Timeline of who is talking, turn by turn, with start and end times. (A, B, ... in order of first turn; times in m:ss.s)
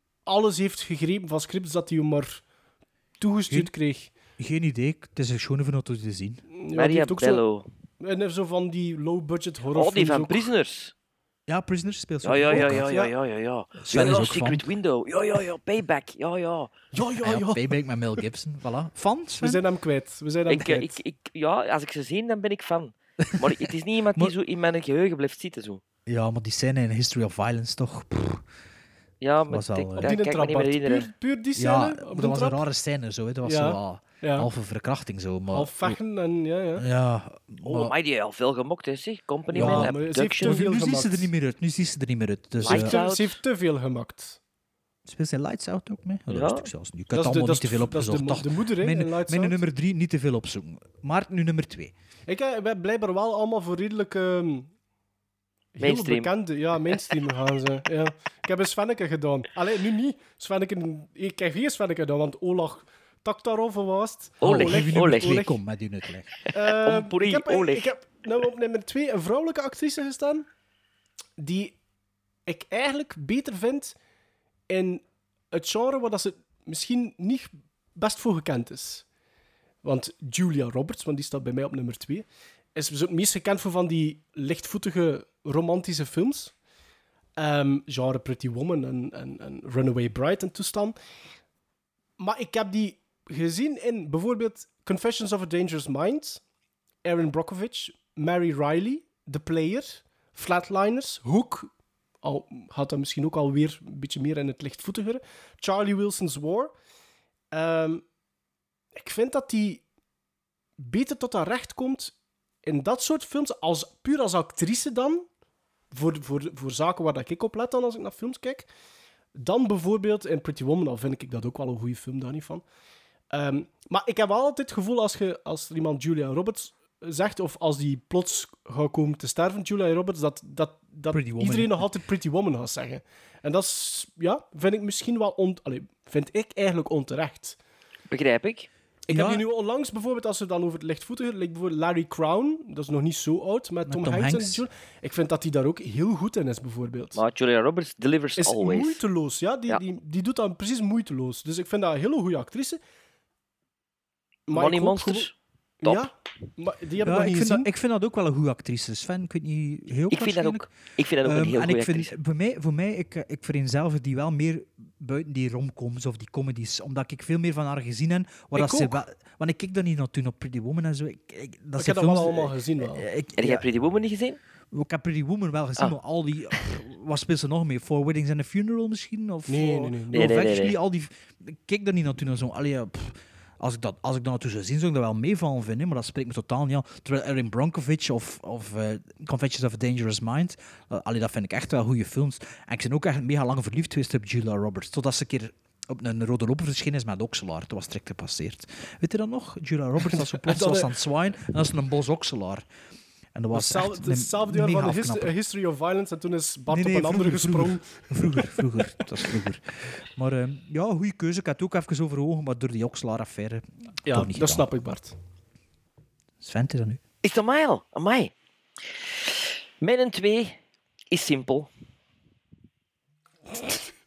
0:00.2-0:02.4 A
0:03.2-0:04.1 A
0:04.4-0:06.4 B
0:06.5-0:07.4 A
0:06.8-0:07.7 C
0:08.0-0:10.5 A
0:09.7-0:10.9 C
0:11.5-0:12.9 B
0:12.2-0:16.7 C
0:12.5-0:13.1 A
0:13.8-0:14.7 B
0:16.9-0:17.8 A
0:17.2-0:19.6 B
0:19.4-0:21.0 A
0:20.5-0:25.8 C
0:26.1-0:28.4 B
0:29.2-0:31.1 C
0:29.5-0:30.2 B
0:30.0-0:32.6 A
0:31.6-0:36.0 B
0:33.4-0:34.5 A
0:35.5-0:36.8 A
0:36.8-0:37.9 B
0:37.6-0:40.6 C
0:39.5-0:41.3 A
0:39.5-0:43.0 B
0:42.6-0:43.4 C
0:42.6-0:44.4 A
0:45.0-0:51.9 B
0:46.3-0:46.7 C
0:47.1-0:49.6 A
0:52.3-0:54.7 A
0:55.7-1:05.6 A
0:55.8-0:56.3 C
1:04.4-1:05.4 C
1:04.4-1:06.3 B
1:06.5-1:10.4 A
1:06.8-1:07.9 C
1:11.4-1:11.7 A
1:12.5-1:13.9 A
1:14.7-1:19.0 A
1:19.8-1:26.5 A
1:27.4-1:31.0 A
1:32.2-1:36.4 A
1:37.0-1:41.7 A
1:42.2-1:46.7 A
1:47.5-1:48.0 A
1:48.9-1:49.8 A
1:50.8-1:52.1 A
1:52.6-1:55.2 A
1:55.9-1:58.7 A
1:59.4-2:02.6 A
2:03.3-2:17.6 A
2:11.1-2:11.9 B
2:18.1-2:18.7 C
2:19.1-2:27.2 A
2:19.1-2:19.4 B
2:23.8-2:24.6 B
2:27.1-2:29.0 C
2:28.4-2:32.8 A
2:34.5-2:35.3 A
2:34.5-2:35.3 C
2:35.8-2:37.7 A
2:37.0-2:40.7 B
2:40.1-2:42.1 C
2:41.2-2:53.6 B
2:48.5-2:49.0 A
2:51.8-2:53.0 A
2:53.4-2:54.4 C
2:54.7-3:22.6 B
2:59.5-3:00.4 A
3:00.1-3:00.7 C
3:20.1-3:20.9 A
3:23.3-3:25.3 B
3:23.5-3:28.6 A
3:26.7-3:34.7 B
3:34.1-3:35.2 A
3:36.4-3:37.0 B
3:37.2-3:38.3 C
3:39.8-3:40.6 C
3:41.1-3:41.7 C